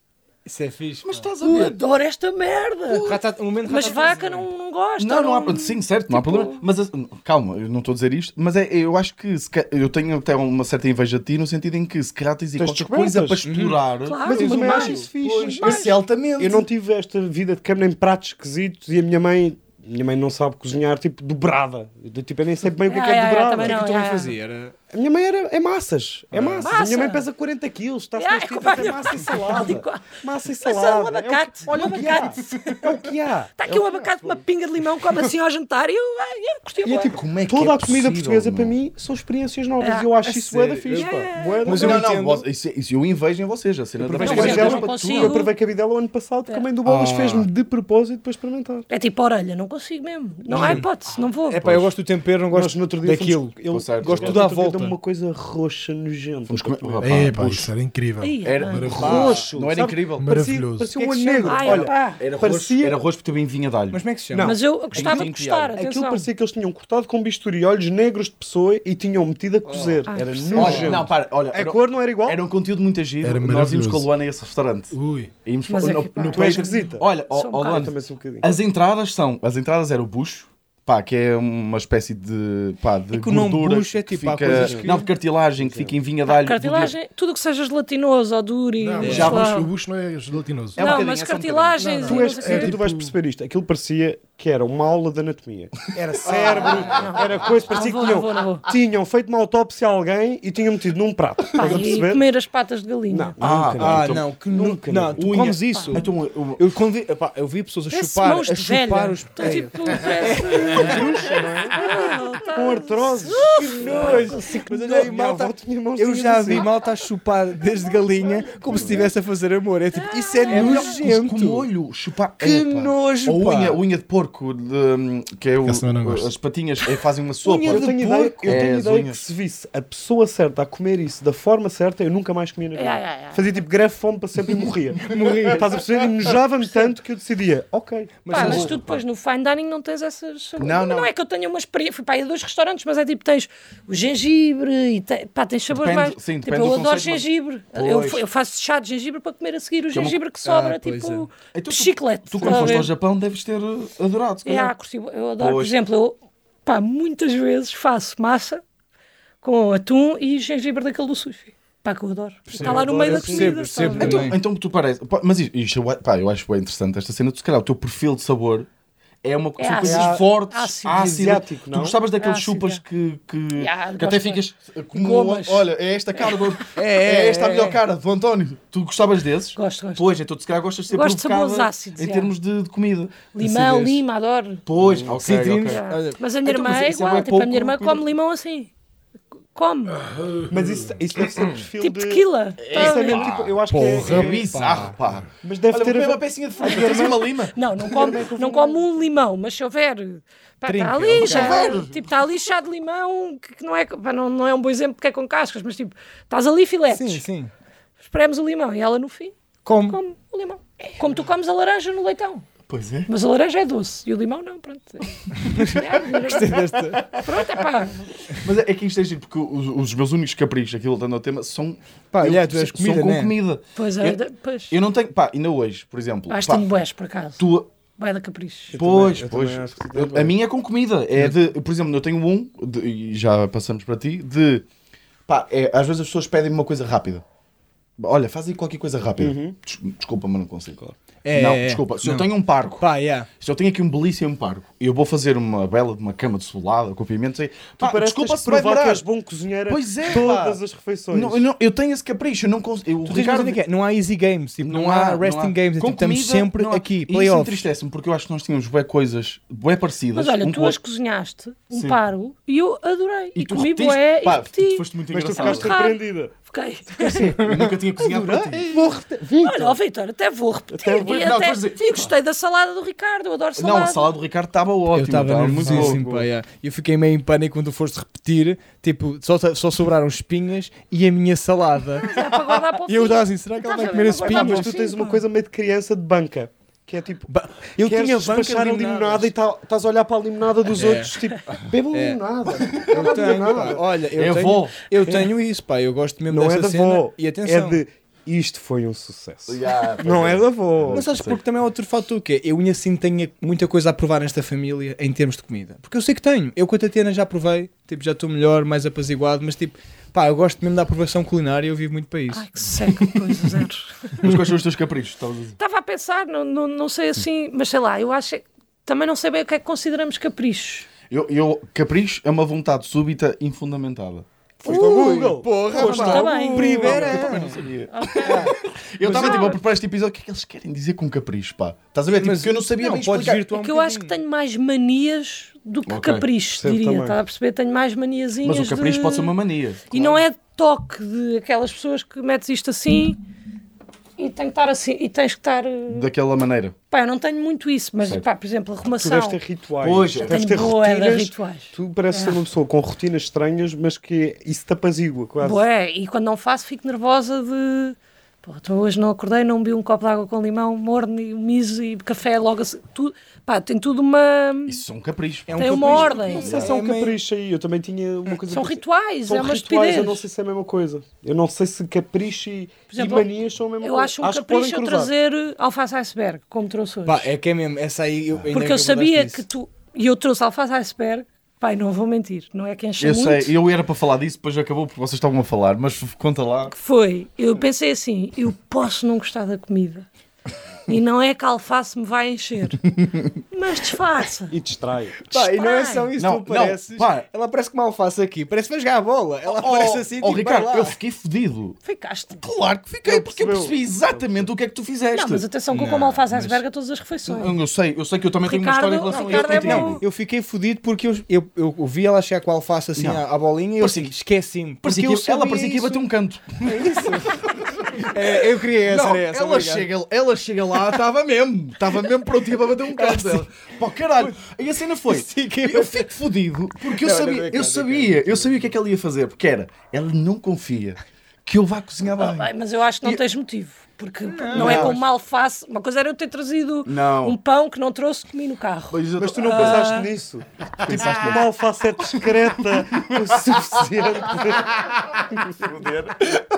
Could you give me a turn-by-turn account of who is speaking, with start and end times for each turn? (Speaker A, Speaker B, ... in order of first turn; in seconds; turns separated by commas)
Speaker A: 0.4-1.3, Speaker B: 1.0-1.8, Speaker C: 1.4-3.1, Speaker B: 2.9-3.2, Speaker A: 3.0-4.5, Speaker C: 3.7-6.6, Speaker B: 5.0-16.7, Speaker D: 12.6-13.4, Speaker A: 13.4-13.8, Speaker C: 14.1-15.9, Speaker D: 14.2-23.8, Speaker A: 14.4-14.9, Speaker C: 22.9-24.3, Speaker A: 23.6-24.8, Speaker D: 24.9-33.5, Speaker A: 26.3-26.7, Speaker C: 26.6-27.2, Speaker C: 28.2-32.8, Speaker B: 31.7-32.8, Speaker C: 33.6-37.2, Speaker B: 33.7-34.0, Speaker B: 36.8-38.7, Speaker D: 37.5-42.1, Speaker C: 39.8-40.3, Speaker A: 40.3-42.4, Speaker C: 40.9-41.8, Speaker B: 41.6-45.4, Speaker D: 44.0-48.9, Speaker A: 44.2-44.8, Speaker C: 44.2-45.5, Speaker A: 46.8-47.5, Speaker C: 48.9-51.6, Speaker A: 50.5-50.8, Speaker A: 51.5-55.0, Speaker B: 51.6-51.9, Speaker D: 52.5-57.3, Speaker B: 53.7-54.4, Speaker B: 56.5-57.7, Speaker E: 57.0-59.4, Speaker C: 58.2-59.0, Speaker B: 58.4-60.3, Speaker D: 58.9-63.0, Speaker A: 58.9-59.5, Speaker E: 60.2-60.9, Speaker A: 60.9-61.9, Speaker C: 61.4-62.2, Speaker B: 62.2-64.0, Speaker A: 63.9-64.5, Speaker D: 64.3-72.4, Speaker C: 64.4-66.3, Speaker B: 64.9-65.8, Speaker A: 69.6-71.0, Speaker C: 70.1-70.8, Speaker B: 70.5-86.9, Speaker E: 73.2-74.1, Speaker E: 74.9-75.3, Speaker C: 75.7-77.9, Speaker D: 76.3-77.1, Speaker D: 77.6-78.5, Speaker A: 83.1-85.0, Speaker D: 84.4-85.0, Speaker D: 85.6-86.0, Speaker C: 86.3-89.7, Speaker E: 88.8-90.9, Speaker A: 89.0-89.4, Speaker B: 89.0-89.5, Speaker B: 90.7-91.8, Speaker C: 90.8-92.8, Speaker E: 91.8-92.2, Speaker D: 92.0-102.2, Speaker A: 92.1-93.0, Speaker A: 96.2-97.1, Speaker C: 96.5-98.7, Speaker C: 101.6-103.3, Speaker D: 103.1-105.3, Speaker B: 103.4-104.3, Speaker A: 103.8-111.4, Speaker B: 105.1-106.6, Speaker C: 105.7-106.0, Speaker C: 107.9-114.8, Speaker D: 110.4-111.8, Speaker D: 112.4-116.7, Speaker A: 113.4-121.7, Speaker D: 118.7-119.1, Speaker C: 119.9-121.0, Speaker B: 120.5-129.2, Speaker A: 122.4-123.8, Speaker E: 125.6-126.3, Speaker D: 127.5-138.6, Speaker A: 127.5-128.6, Speaker C: 132.7-133.4, Speaker A: 135.0-136.3, Speaker A: 138.2-138.8, Speaker C: 138.3-152.9, Speaker B: 138.3-138.9, Speaker B: 140.6-141.1, Speaker B: 145.7-148.2, Speaker B: 149.9-150.2, Speaker A: 150.4-151.3, Speaker B: 151.5-154.7, Speaker C: 154.4-158.6, Speaker B: 155.4-155.7, Speaker C: 159.4-164.3, Speaker D: 162.5-164.1, Speaker A: 162.5-164.4, Speaker B: 164.0-168.7, Speaker B: 169.2-184.0, Speaker C: 169.6-171.2, Speaker A: 169.8-170.2, Speaker D: 169.8-170.2, Speaker D: 170.9-172.0, Speaker C: 172.2-172.8, Speaker C: 173.6-176.6, Speaker A: 176.7-177.8, Speaker C: 179.6-180.1, Speaker C: 180.9-182.3, Speaker C: 183.3-184.6, Speaker B: 184.7-185.8, Speaker A: 185.1-186.2, Speaker C: 185.6-188.7, Speaker B: 186.4-188.1, Speaker C: 189.5-190.0, Speaker D: 190.5-194.4, Speaker C: 191.8-193.3, Speaker B: 192.6-198.1, Speaker A: 193.7-194.9, Speaker D: 195.4-197.2, Speaker C: 196.6-207.2, Speaker D: 197.8-198.8, Speaker A: 200.7-201.7, Speaker B: 201.2-202.1, Speaker A: 206.9-207.5, Speaker C: 208.0-212.4, Speaker A: 209.6-210.0, Speaker B: 212.7-213.1, Speaker C: 213.1-216.6, Speaker A: 215.4-217.1, Speaker B: 215.7-217.4, Speaker C: 217.1-218.1, Speaker B: 218.4-224.2, Speaker A: 222.1-223.3, Speaker C: 223.8-224.8, Speaker B: 224.7-226.7, Speaker C: 226.3-227.4, Speaker B: 227.4-227.7, Speaker C: 228.0-228.8, Speaker D: 228.7-230.3, Speaker B: 228.7-234.7, Speaker B: 235.3-237.2, Speaker B: 238.0-240.8, Speaker D: 239.2-239.6, Speaker A: 241.2-243.3, Speaker B: 241.3-242.9, Speaker B: 243.4-249.0, Speaker D: 247.8-251.4, Speaker B: 249.7-253.6, Speaker A: 253.0-257.7, Speaker B: 254.6-260.8, Speaker C: 260.1-267.4, Speaker B: 261.7-262.0, Speaker B: 263.3-265.7, Speaker D: 265.1-266.3, Speaker A: 267.1-269.1, Speaker B: 267.4-268.8, Speaker D: 268.3-269.8, Speaker C: 269.4-274.1, Speaker D: 270.7-271.2, Speaker B: 271.0-272.1, Speaker B: 273.6-276.1, Speaker A: 274.9-282.1, Speaker D: 275.6-276.2, Speaker C: 282.0-285.2, Speaker A: 282.8-284.7, Speaker D: 284.2-293.8, Speaker A: 287.3-289.3, Speaker A: 290.7-291.1, Speaker A: 291.9-297.8, Speaker B: 294.1-294.8, Speaker D: 295.0-295.3, Speaker D: 296.3-301.0, Speaker B: 299.5-301.4, Speaker A: 300.9-312.7, Speaker C: 312.3-314.2, Speaker B: 314.2-315.6, Speaker C: 315.6-320.9, Speaker B: 321.1-324.2, Speaker D: 324.6-327.2, Speaker C: 324.6-325.2, Speaker A: 324.6-327.6, Speaker C: 325.7-327.2, Speaker B: 326.8-333.5, Speaker C: 327.9-328.6, Speaker A: 328.2-328.6, Speaker C: 329.1-329.6, Speaker D: 329.1-329.5, Speaker A: 332.1-334.2, Speaker C: 333.5-339.3, Speaker B: 335.9-336.3, Speaker D: 336.6-337.2, Speaker B: 338.4-340.2, Speaker C: 339.9-343.2, Speaker C: 344.2-346.1, Speaker B: 345.9-346.7, Speaker C: 346.9-349.4, Speaker D: 349.0-355.6, Speaker B: 349.8-350.4, Speaker C: 350.2-352.4, Speaker C: 355.4-364.8, Speaker B: 364.6-366.7, Speaker A: 365.5-367.2, Speaker C: 365.6-366.5, Speaker D: 366.3-375.1, Speaker C: 368.5-370.2, Speaker C: 372.9-377.3, Speaker A: 377.1-379.4, Speaker C: 378.5-383.5, Speaker B: 383.0-386.7, Speaker C: 386.7-390.1, Speaker C: 390.9-392.8, Speaker C: 393.5-394.5, Speaker D: 394.5-395.2, Speaker A: 395.2-401.0, Speaker C: 395.3-396.1, Speaker B: 396.1-397.3, Speaker B: 399.4-401.8, Speaker C: 401.8-402.4, Speaker B: 402.4-405.4, Speaker D: 403.0-404.5, Speaker C: 405.1-407.5, Speaker A: 405.7-406.6, Speaker B: 407.2-410.0, Speaker C: 408.4-410.0, Speaker A: 409.1-416.0, Speaker B: 412.9-413.2, Speaker B: 413.8-414.1, Speaker B: 414.8-432.5, Speaker A: 416.6-419.9, Speaker A: 422.9-423.5, Speaker A: 425.1-426.1, Speaker A: 426.8-428.6, Speaker C: 432.2-440.1, Speaker A: 434.3-435.0, Speaker B: 434.5-435.0, Speaker B: 436.9-437.4, Speaker B: 438.9-439.9, Speaker D: 439.2-446.3, Speaker B: 440.8-441.5, Speaker B: 442.7-443.7